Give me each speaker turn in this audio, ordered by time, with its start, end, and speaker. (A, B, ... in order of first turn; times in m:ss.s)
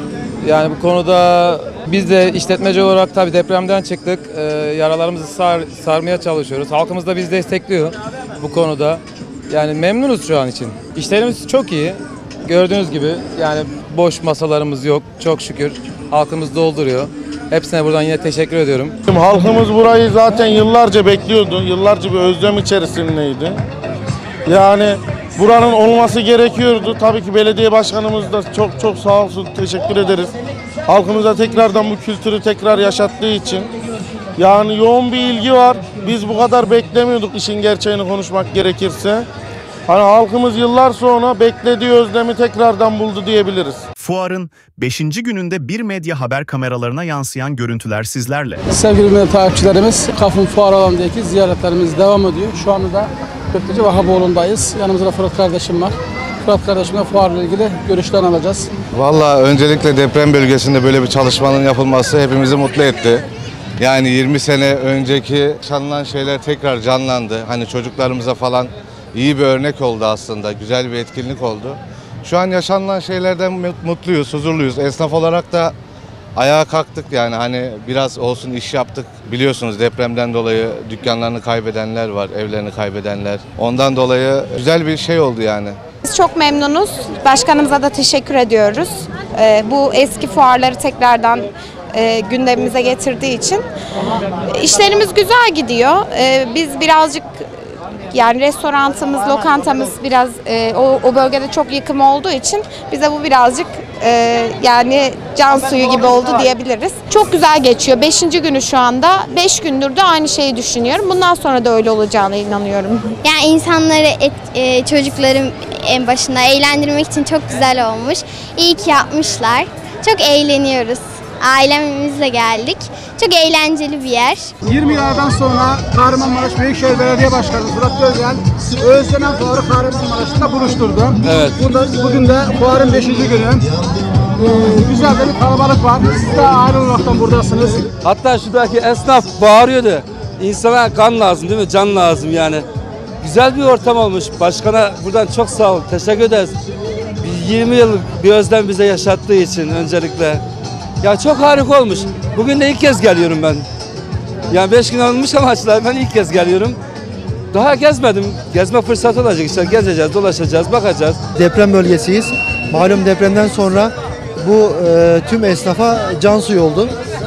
0:00.4-0:18.9 A
0:19.1-0:23.6 B
0:24.5-0:30.3 B
0:30.9-0:33.7 B
0:34.4-0:39.2 B
0:39.9-0:43.8 B
0:44.0-0:48.6 C
0:48.7-0:58.7 D
0:59.0-1:03.2 E
1:03.8-1:15.7 E
1:16.4-1:25.8 E
1:26.2-1:28.9 F
1:29.4-1:31.4 F
1:32.0-1:33.5 F
1:34.7-1:37.2 F
1:38.1-1:52.9 F
1:53.2-2:04.5 G
2:04.8-2:05.4 D
2:05.9-2:08.3 D
2:08.9-2:11.1 D
2:11.2-2:11.7 H
2:11.8-2:13.6 D
2:14.6-2:17.8 D
2:18.0-2:22.7 H
2:23.2-2:26.6 H
2:27.2-2:30.4 H
2:31.0-2:33.7 H
2:34.5-2:36.8 H
2:37.5-2:41.2 H
2:41.4-2:46.9 I